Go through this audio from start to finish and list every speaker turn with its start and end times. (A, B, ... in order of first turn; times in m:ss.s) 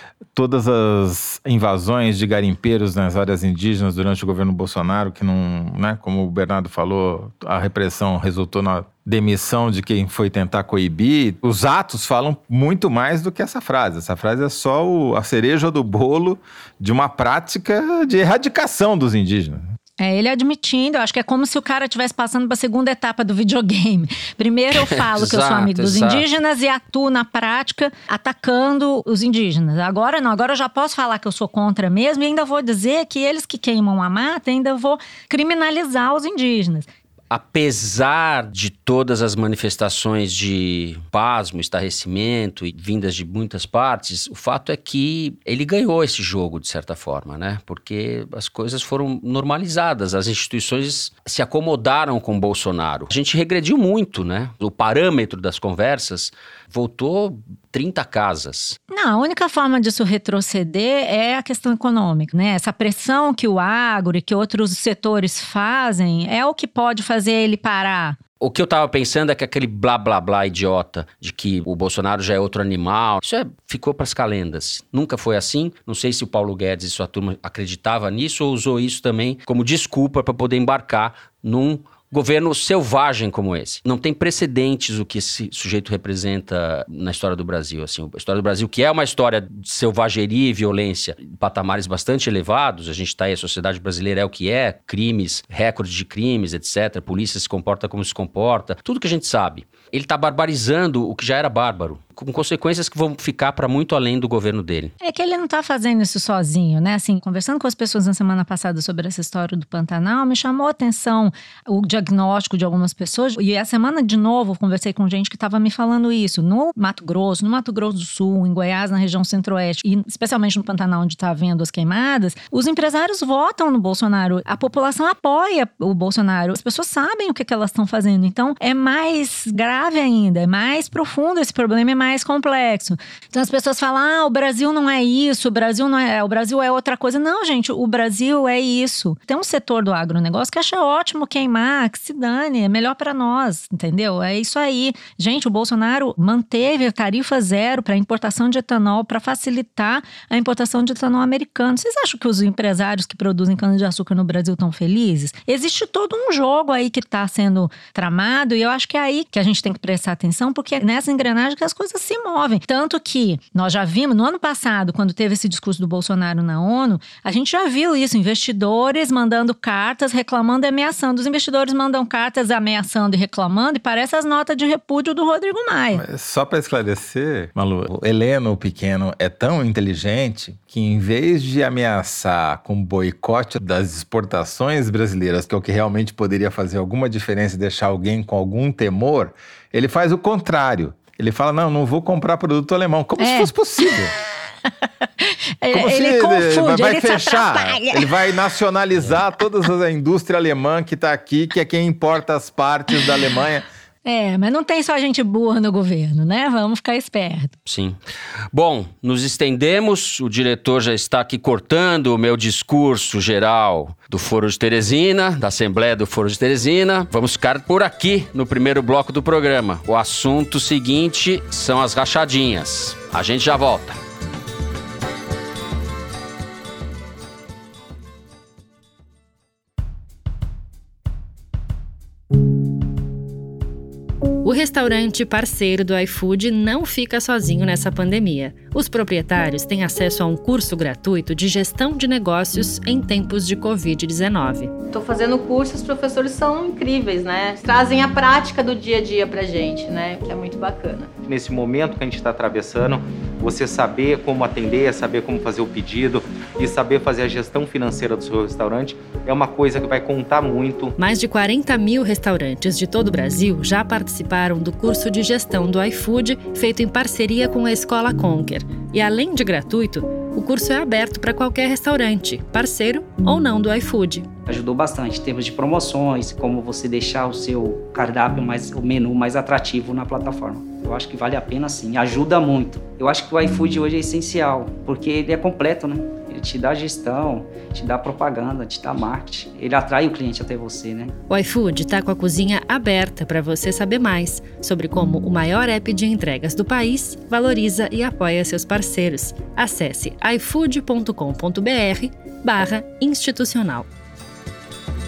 0:00.4-0:19.7 A
0:20.0-0:36.9 B
0:24.8-0:26.2 C
0:37.3-0:58.8 C
0:58.9-1:08.2 B
1:08.4-1:44.9 C
1:45.0-2:56.0 B
2:55.9-3:14.1 A
3:13.2-3:13.5 B
3:15.2-3:18.1 B
3:15.7-3:23.7 A
3:24.1-3:27.5 B
3:27.7-3:28.0 C
3:28.5-3:44.0 C
3:54.4-4:04.8 D
4:04.9-4:11.1 E
4:11.2-4:20.9 F
4:21.0-4:34.3 D
4:34.5-4:51.1 G
4:51.3-5:03.9 D